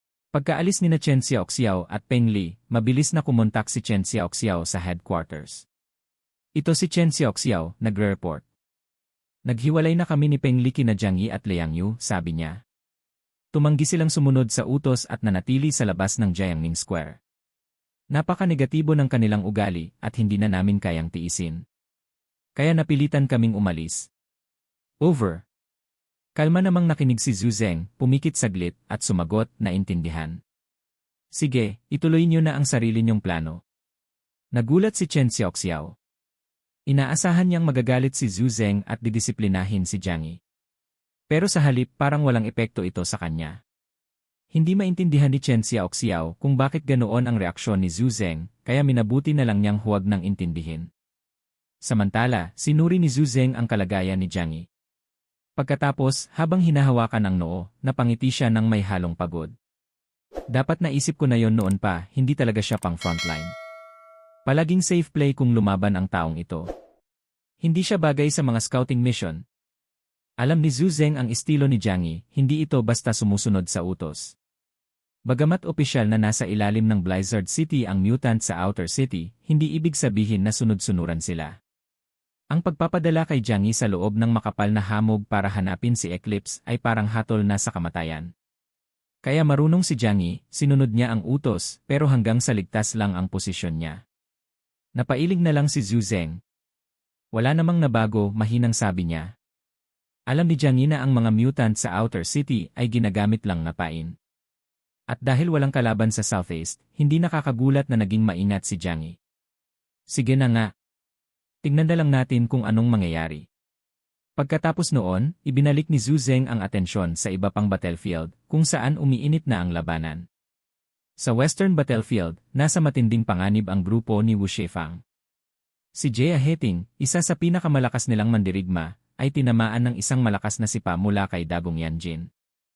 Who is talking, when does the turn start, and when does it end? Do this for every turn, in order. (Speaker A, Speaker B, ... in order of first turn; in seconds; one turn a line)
Speaker A: 0.3-5.7
Speaker A: 6.6-8.5
Speaker A: 9.5-12.6
Speaker A: 13.5-17.2
Speaker A: 18.1-21.6
Speaker A: 22.6-24.1
Speaker A: 25.0-25.4
Speaker A: 26.4-30.4
Speaker A: 31.4-33.6
Speaker A: 34.5-35.9
Speaker A: 36.9-40.4
Speaker A: 41.3-43.6
Speaker A: 44.5-50.9
Speaker A: 51.9-54.6
Speaker A: 55.6-59.5
Speaker A: 60.5-63.5
Speaker A: 64.5-66.7
Speaker A: 67.6-69.4
Speaker A: 70.4-74.3
Speaker A: 75.3-81.5
Speaker A: 82.5-88.3
Speaker A: 89.2-94.0
Speaker A: 95.0-96.4
Speaker A: 97.3-99.3
Speaker A: 100.3-104.1
Speaker A: 105.1-109.2
Speaker A: 110.1-110.7
Speaker A: 111.6-113.4
Speaker A: 114.4-120.2
Speaker A: 121.2-125.0
Speaker A: 126.0-132.3